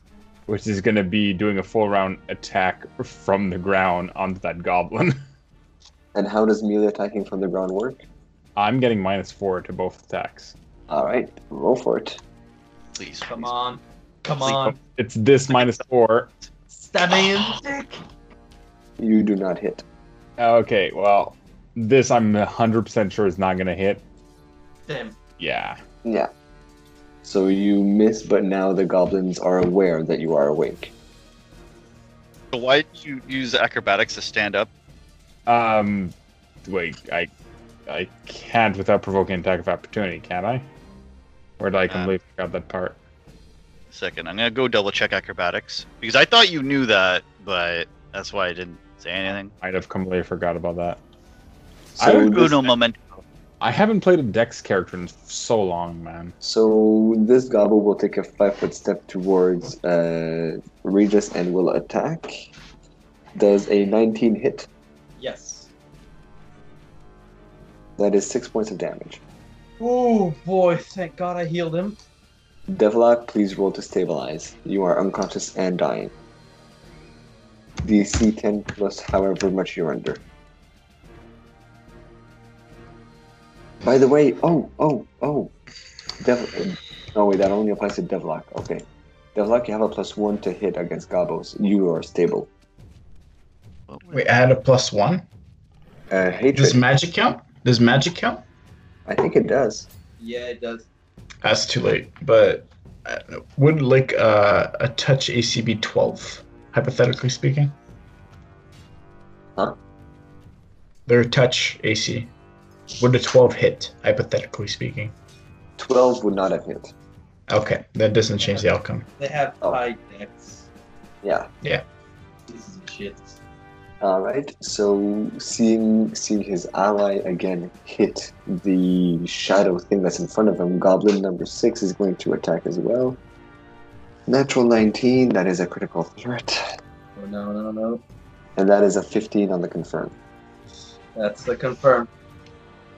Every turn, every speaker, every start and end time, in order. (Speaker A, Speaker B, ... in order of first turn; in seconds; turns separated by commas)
Speaker A: 0.5-5.2, Speaker B: 6.1-8.0, Speaker A: 8.6-10.5, Speaker B: 10.9-12.2, Speaker C: 12.9-13.5, Speaker D: 13.2-14.8, Speaker A: 14.4-16.3, Speaker D: 16.7-18.0, Speaker B: 19.0-19.8, Speaker A: 20.4-24.0, Speaker D: 24.9-25.2, Speaker A: 25.4-25.8, Speaker B: 26.0-26.3, Speaker B: 27.2-30.9, Speaker C: 32.5-34.7, Speaker A: 35.5-36.1, Speaker A: 36.6-37.3, Speaker A: 37.9-40.6, Speaker A: 41.6-43.0, Speaker C: 41.9-42.1, Speaker C: 43.9-49.5, Speaker A: 49.6-51.0, Speaker B: 52.0-52.7, Speaker A: 52.0-52.4, Speaker C: 52.0-53.2, Speaker A: 53.6-56.3, Speaker B: 56.4-62.5, Speaker B: 63.4-64.7, Speaker D: 65.2-65.7, Speaker B: 68.0-69.2, Speaker D: 69.8-72.0, Speaker B: 72.7-76.1, Speaker B: 77.8-80.2, Speaker B: 83.8-85.5, Speaker B: 86.2-88.8, Speaker B: 89.3-92.5, Speaker C: 93.9-94.2, Speaker E: 94.1-95.2, Speaker B: 96.1-96.8, Speaker E: 96.5-98.4, Speaker B: 99.0-99.9, Speaker D: 100.2-100.9, Speaker E: 101.4-107.7, Speaker E: 111.1-112.3, Speaker E: 113.0-115.1, Speaker B: 115.8-116.9, Speaker E: 117.5-119.0, Speaker D: 118.4-120.7, Speaker B: 121.2-121.5, Speaker D: 122.5-123.4, Speaker B: 124.0-133.2, Speaker B: 134.3-136.6, Speaker D: 137.2-138.0, Speaker B: 138.6-140.1, Speaker D: 141.2-142.1